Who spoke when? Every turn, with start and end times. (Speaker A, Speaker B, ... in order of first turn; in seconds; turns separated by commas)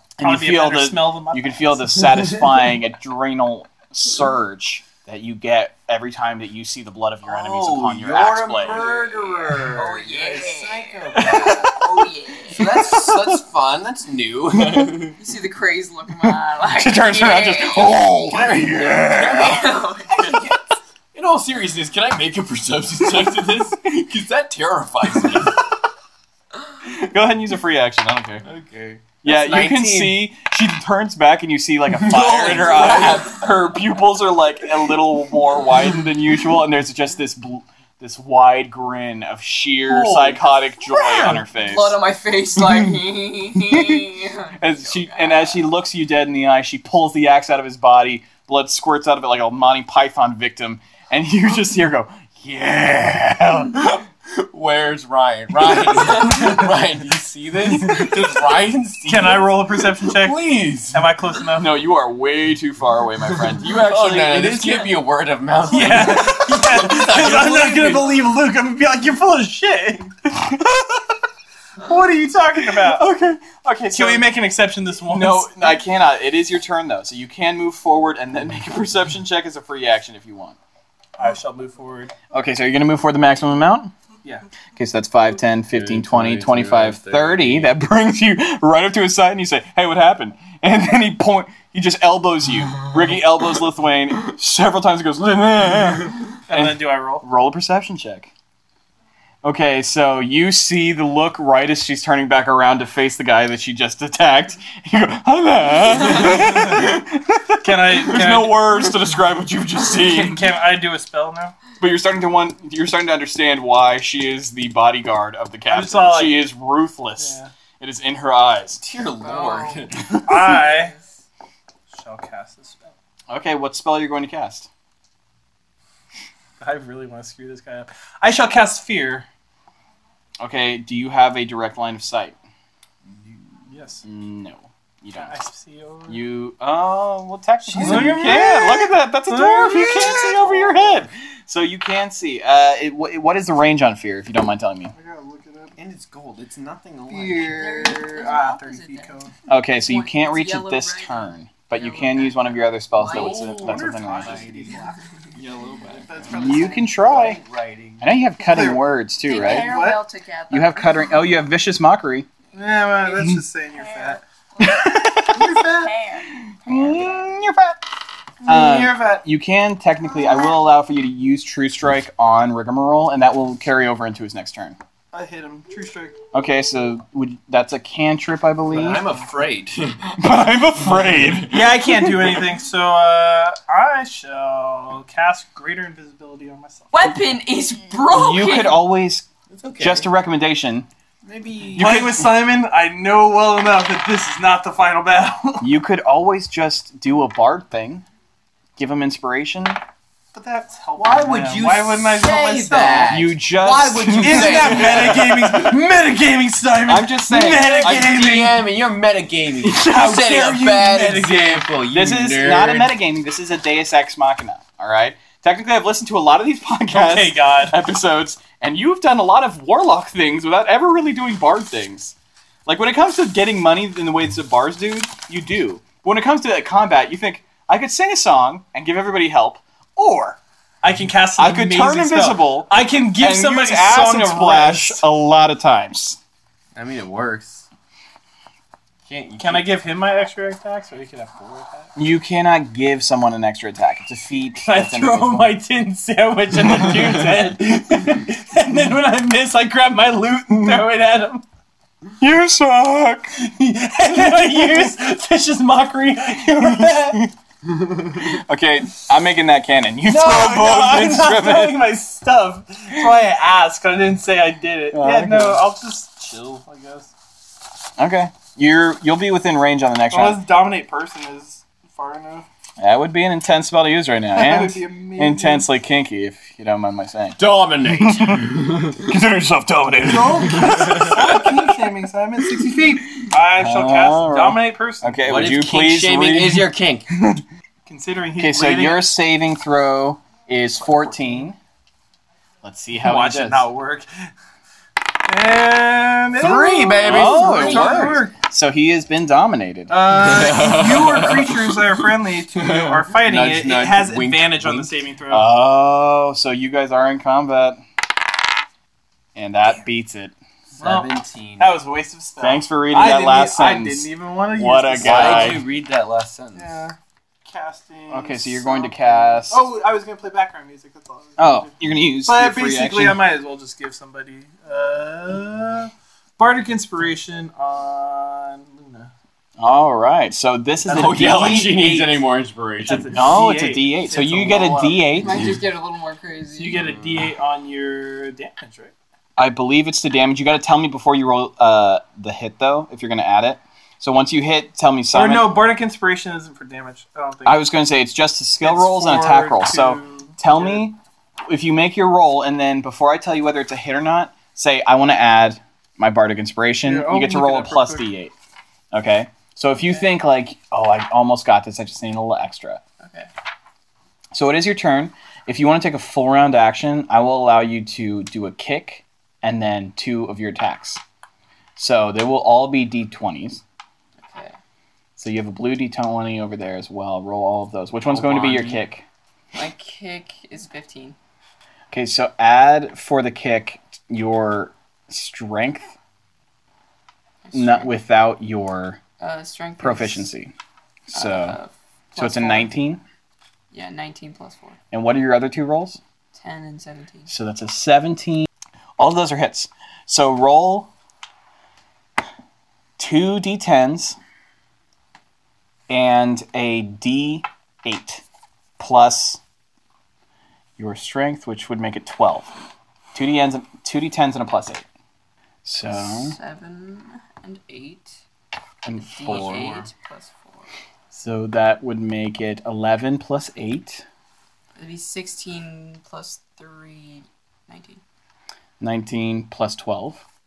Speaker A: 0.2-8.9, Speaker B: 0.2-2.0, Speaker C: 7.2-11.8, Speaker D: 9.7-12.7, Speaker B: 11.2-11.8, Speaker C: 12.5-15.2, Speaker D: 15.2-18.0, Speaker A: 16.7-19.7, Speaker C: 18.3-20.6, Speaker D: 19.3-20.4, Speaker C: 21.1-25.6, Speaker A: 26.8-28.4, Speaker C: 28.4-30.2, Speaker A: 29.2-42.0, Speaker C: 31.9-33.4, Speaker C: 39.9-40.6, Speaker D: 41.5-45.6, Speaker A: 44.6-53.9, Speaker C: 53.7-61.1, Speaker B: 57.9-58.1, Speaker B: 59.0-61.8, Speaker A: 61.6-64.9, Speaker C: 63.5-68.2, Speaker B: 65.7-70.8, Speaker B: 71.8-73.0, Speaker A: 72.6-74.2, Speaker B: 73.9-75.8, Speaker A: 75.1-80.6, Speaker B: 81.2-82.1, Speaker A: 82.3-83.9, Speaker A: 84.8-98.3, Speaker C: 85.7-87.7, Speaker B: 96.5-97.2, Speaker A: 99.4-110.4, Speaker B: 107.6-108.9, Speaker B: 110.0-111.5, Speaker A: 111.8-118.8, Speaker B: 115.7-116.5, Speaker B: 117.2-117.5, Speaker C: 118.8-120.4, Speaker D: 119.2-121.1, Speaker B: 120.2-120.9, Speaker B: 121.9-122.9, Speaker A: 123.3-124.7, Speaker B: 126.6-129.2, Speaker A: 130.4-132.3, Speaker B: 133.7-134.0, Speaker A: 134.0-135.3, Speaker B: 135.1-136.2, Speaker A: 136.1-144.9, Speaker B: 137.7-140.8, Speaker B: 144.9-145.8, Speaker C: 145.8-147.7, Speaker B: 147.1-149.3, Speaker D: 147.5-149.1, Speaker A: 149.5-154.5, Speaker D: 149.8-153.8, Speaker C: 153.1-154.8, Speaker B: 153.4-155.0, Speaker D: 154.7-155.0, Speaker C: 155.3-158.1, Speaker B: 155.9-156.8, Speaker D: 156.3-156.8, Speaker A: 156.3-157.4, Speaker A: 158.0-159.8, Speaker B: 158.5-160.0, Speaker D: 159.2-161.2, Speaker A: 160.5-162.3, Speaker B: 162.5-164.2, Speaker D: 163.8-166.3, Speaker A: 164.6-165.6, Speaker B: 165.2-165.9, Speaker A: 166.3-167.8, Speaker B: 168.4-169.2, Speaker A: 168.4-174.8, Speaker B: 175.1-176.2, Speaker A: 176.3-179.0, Speaker C: 178.7-180.2, Speaker A: 180.2-182.3, Speaker B: 181.5-186.9, Speaker D: 186.9-188.8, Speaker A: 188.1-190.9, Speaker C: 189.5-190.1, Speaker C: 191.2-191.9, Speaker A: 191.7-192.3, Speaker B: 191.8-195.7, Speaker A: 195.6-198.0, Speaker A: 198.8-199.8, Speaker B: 200.3-203.2, Speaker C: 200.9-205.7, Speaker A: 203.1-205.1, Speaker B: 203.9-208.6, Speaker A: 206.9-208.2, Speaker C: 207.3-212.9, Speaker B: 209.6-211.7, Speaker A: 211.9-222.1, Speaker B: 216.9-217.8, Speaker A: 222.7-230.4, Speaker B: 230.8-235.0, Speaker A: 231.4-236.2, Speaker C: 236.7-237.7, Speaker C: 239.1-239.7, Speaker B: 239.4-241.9, Speaker A: 241.9-245.6, Speaker B: 244.6-251.4, Speaker A: 252.2-253.3, Speaker B: 253.4-257.2, Speaker A: 256.6-257.3, Speaker A: 258.1-261.8, Speaker B: 260.1-267.1, Speaker A: 264.9-265.6, Speaker A: 268.0-270.4, Speaker B: 270.1-272.5, Speaker A: 272.8-281.6, Speaker B: 274.3-275.7, Speaker C: 277.4-278.9, Speaker B: 280.0-285.2, Speaker C: 280.7-281.1, Speaker A: 283.2-287.4, Speaker C: 285.2-287.1, Speaker B: 287.9-289.0, Speaker A: 288.4-291.6, Speaker B: 290.8-291.4, Speaker A: 292.6-293.7, Speaker B: 293.0-294.1, Speaker B: 295.2-298.3, Speaker C: 296.4-298.2, Speaker A: 297.0-299.9, Speaker B: 299.9-305.5, Speaker C: 300.1-301.8, Speaker C: 302.6-304.9, Speaker A: 305.3-307.8, Speaker A: 309.3-310.3, Speaker C: 310.8-311.8, Speaker B: 310.8-315.6, Speaker A: 312.4-315.6, Speaker C: 315.0-316.8, Speaker B: 316.5-329.1, Speaker A: 318.1-319.6, Speaker A: 321.4-323.2, Speaker A: 329.6-331.9, Speaker B: 330.9-332.1, Speaker C: 330.9-333.2, Speaker B: 332.8-335.1, Speaker A: 332.8-335.5, Speaker D: 335.1-336.8, Speaker B: 336.5-338.9, Speaker C: 336.7-337.3, Speaker A: 339.4-345.5, Speaker B: 345.1-347.6, Speaker A: 347.4-358.3, Speaker B: 348.6-350.9, Speaker B: 356.8-358.1, Speaker A: 358.9-362.8, Speaker D: 363.0-363.3, Speaker A: 364.3-371.0, Speaker A: 371.8-373.6, Speaker D: 374.2-374.6, Speaker A: 375.2-379.0, Speaker C: 378.1-378.8, Speaker D: 379.5-381.1, Speaker A: 381.9-385.9, Speaker D: 387.4-387.9, Speaker A: 387.5-389.0, Speaker D: 389.2-390.3, Speaker A: 389.8-390.5, Speaker A: 391.1-391.6, Speaker D: 391.1-392.7, Speaker A: 392.1-393.0, Speaker D: 393.7-394.8, Speaker A: 394.9-396.0, Speaker D: 396.3-397.3, Speaker A: 397.3-398.5, Speaker A: 399.0-400.9, Speaker A: 403.0-404.2, Speaker A: 405.9-408.2, Speaker A: 408.8-409.4, Speaker A: 410.8-412.5, Speaker A: 413.1-414.8, Speaker A: 415.6-416.4, Speaker D: 415.9-418.1, Speaker A: 418.8-419.7, Speaker D: 419.1-420.7, Speaker C: 419.2-419.9, Speaker A: 421.1-424.0, Speaker D: 424.8-428.0, Speaker A: 428.8-430.2